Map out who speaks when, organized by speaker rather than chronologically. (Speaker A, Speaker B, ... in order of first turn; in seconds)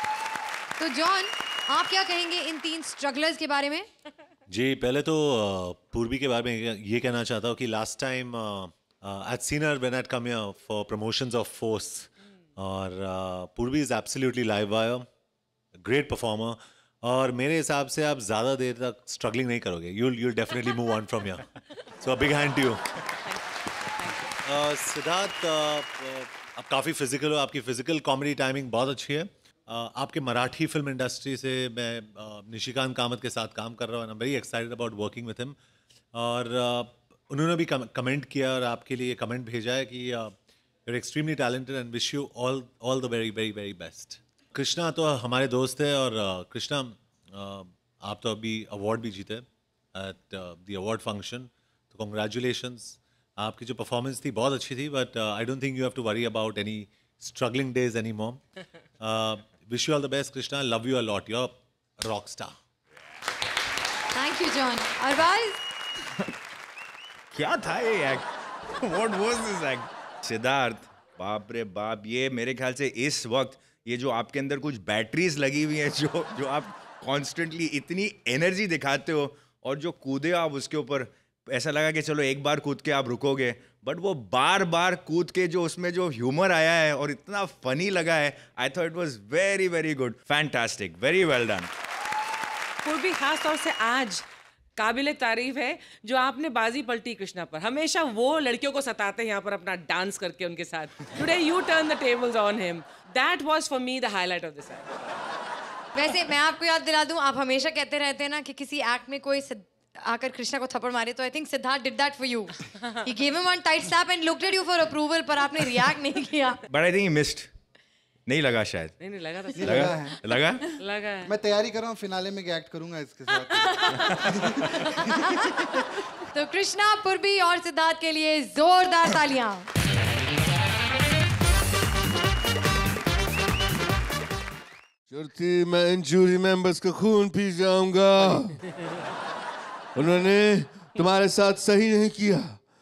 Speaker A: 0.8-3.9, 64.2-65.6, 106.0-116.6, 124.8-125.4, 126.3-129.7
Speaker B: 4.5-15.1, 15.8-21.4, 22.0-22.8, 24.4-35.6, 36.1-40.3, 40.9-58.4, 59.0-62.5
Speaker C: 67.3-68.3, 68.8-91.7, 116.7-117.5, 118.3-119.0, 119.5-120.6
Speaker D: 92.8-94.2, 94.8-104.8, 119.0-119.8, 120.7-121.3
Speaker E: 119.6-120.2, 121.3-124.7
Speaker F: 135.1-138.6, 139.9-142.6